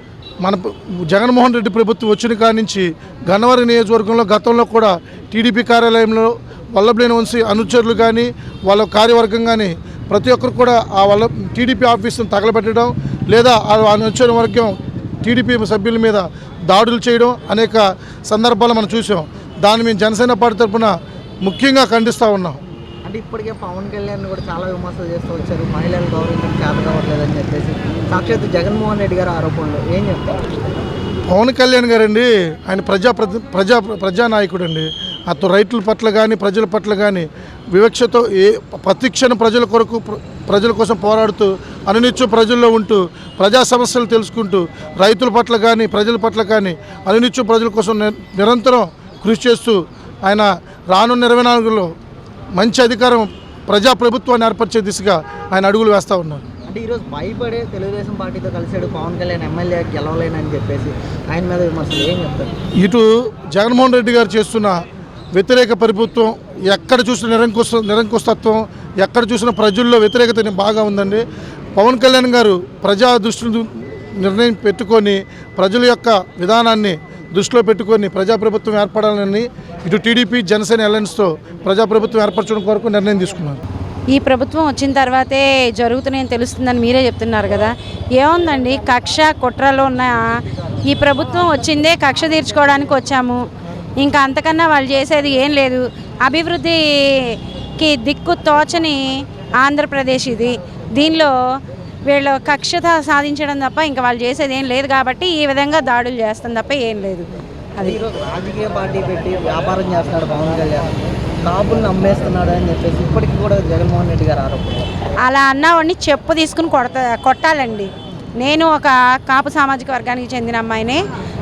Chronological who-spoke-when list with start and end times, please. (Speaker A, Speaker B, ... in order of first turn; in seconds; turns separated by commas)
Speaker A: 0.4-22.6, Speaker B: 23.1-30.5, Speaker A: 31.3-51.9, Speaker A: 52.5-56.4, Speaker B: 56.7-62.5, Speaker A: 62.8-64.8, Speaker A: 65.3-71.2, Speaker A: 71.8-83.6, Speaker C: 84.1-90.2, Speaker C: 90.9-93.4, Speaker C: 94.0-101.3, Speaker C: 102.1-108.0, Speaker B: 107.8-114.9, Speaker C: 115.2-121.0